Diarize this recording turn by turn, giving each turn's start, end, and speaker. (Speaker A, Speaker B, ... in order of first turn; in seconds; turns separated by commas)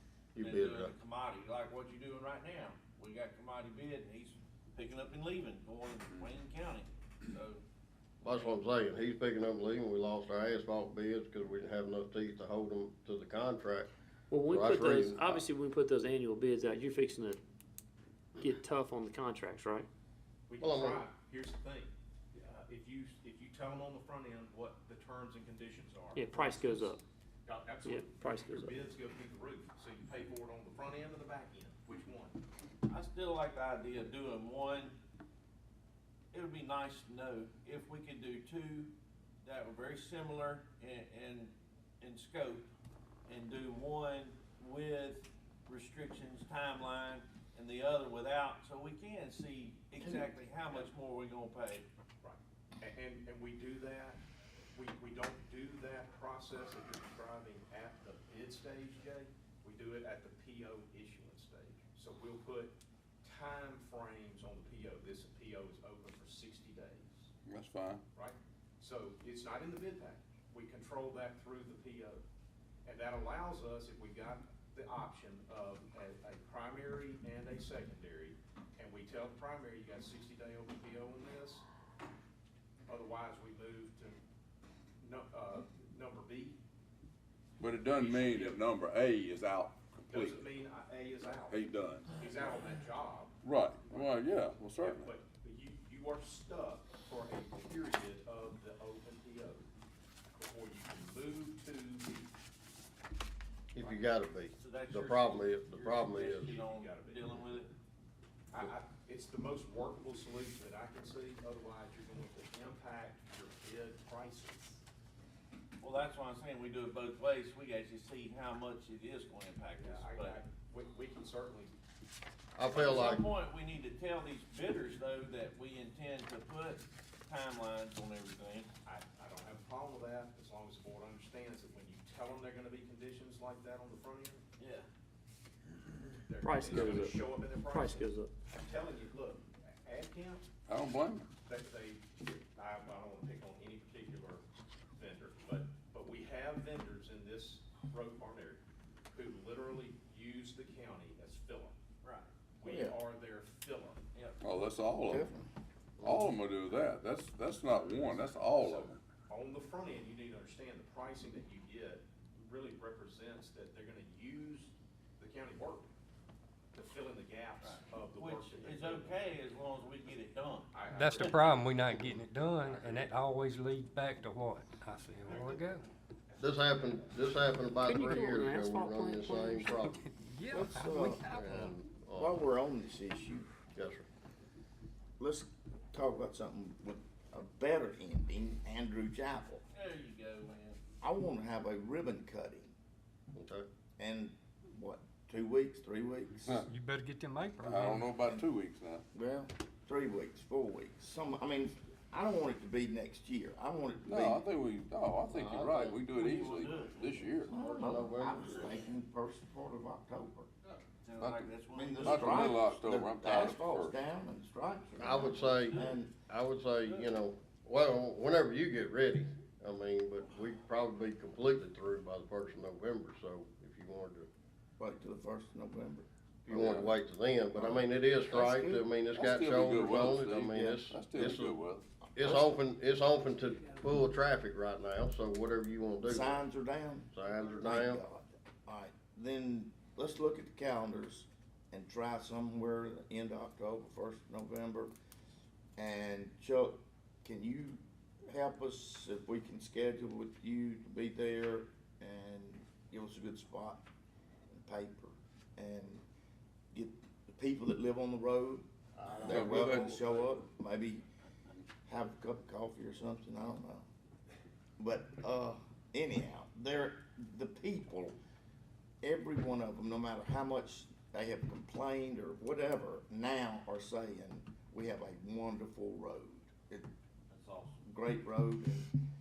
Speaker A: 0.3-0.9, Speaker B: 0.4-7.6, Speaker A: 8.2-15.5, Speaker C: 14.3-17.4, Speaker C: 18.4-19.9, Speaker D: 20.5-26.9, Speaker A: 20.6-21.0, Speaker C: 26.1-27.0, Speaker D: 27.4-32.4, Speaker C: 27.8-28.7, Speaker B: 32.9-35.0, Speaker B: 36.3-38.9, Speaker B: 39.4-42.7, Speaker B: 43.2-51.8, Speaker D: 52.2-54.2, Speaker D: 54.7-67.3, Speaker E: 67.5-68.0, Speaker D: 68.1-72.2, Speaker D: 72.8-81.6, Speaker D: 82.9-84.2, Speaker D: 85.0-86.6, Speaker E: 87.6-90.4, Speaker D: 87.9-88.7, Speaker D: 90.1-94.2, Speaker E: 91.5-92.1, Speaker E: 93.4-95.1, Speaker D: 94.8-99.6, Speaker D: 100.3-102.3, Speaker A: 103.7-106.6, Speaker B: 104.5-107.7, Speaker D: 106.1-107.4, Speaker D: 108.5-114.8, Speaker B: 115.8-120.4, Speaker D: 119.8-121.7, Speaker A: 122.5-123.3, Speaker B: 122.7-128.7, Speaker D: 128.8-134.4, Speaker B: 134.6-134.9, Speaker D: 136.1-140.4, Speaker C: 136.4-138.3, Speaker E: 140.7-141.3, Speaker D: 141.4-144.4, Speaker D: 144.9-151.7, Speaker B: 152.0-152.3, Speaker D: 152.6-154.0, Speaker F: 152.6-153.0, Speaker E: 154.4-155.3, Speaker F: 155.1-156.2, Speaker E: 156.0-159.0, Speaker D: 158.5-165.9, Speaker D: 166.7-169.2, Speaker B: 167.6-171.4, Speaker D: 170.7-171.7, Speaker G: 170.9-175.8, Speaker D: 172.6-173.1, Speaker D: 175.3-175.8, Speaker D: 176.3-176.9, Speaker A: 176.4-180.0, Speaker C: 177.8-179.8, Speaker G: 179.9-181.5, Speaker F: 180.5-183.6, Speaker A: 181.2-182.4, Speaker A: 183.7-184.1, Speaker F: 185.2-189.6, Speaker B: 189.7-190.8, Speaker F: 191.0-192.7, Speaker A: 193.3-193.7, Speaker F: 194.0-196.6, Speaker G: 196.3-198.1, Speaker E: 197.6-199.0, Speaker F: 198.2-198.5, Speaker F: 199.1-204.4, Speaker E: 204.0-207.5, Speaker B: 205.3-207.0, Speaker F: 207.5-210.5, Speaker A: 207.5-208.8, Speaker B: 211.0-212.6, Speaker E: 211.2-214.0, Speaker F: 211.7-216.2, Speaker A: 215.0-224.3, Speaker B: 216.8-217.1, Speaker F: 224.8-226.8, Speaker A: 226.4-231.6, Speaker E: 226.5-226.9, Speaker F: 227.5-228.8, Speaker E: 229.1-231.8, Speaker F: 229.9-230.8, Speaker F: 232.2-232.5, Speaker A: 232.2-236.5, Speaker F: 236.1-244.9, Speaker A: 237.1-238.0, Speaker F: 245.8-253.8, Speaker F: 254.5-256.0, Speaker F: 256.7-261.0, Speaker E: 259.2-260.2, Speaker F: 261.9-263.9, Speaker F: 264.8-268.1, Speaker F: 269.0-276.9, Speaker B: 277.3-277.8, Speaker F: 277.8-278.9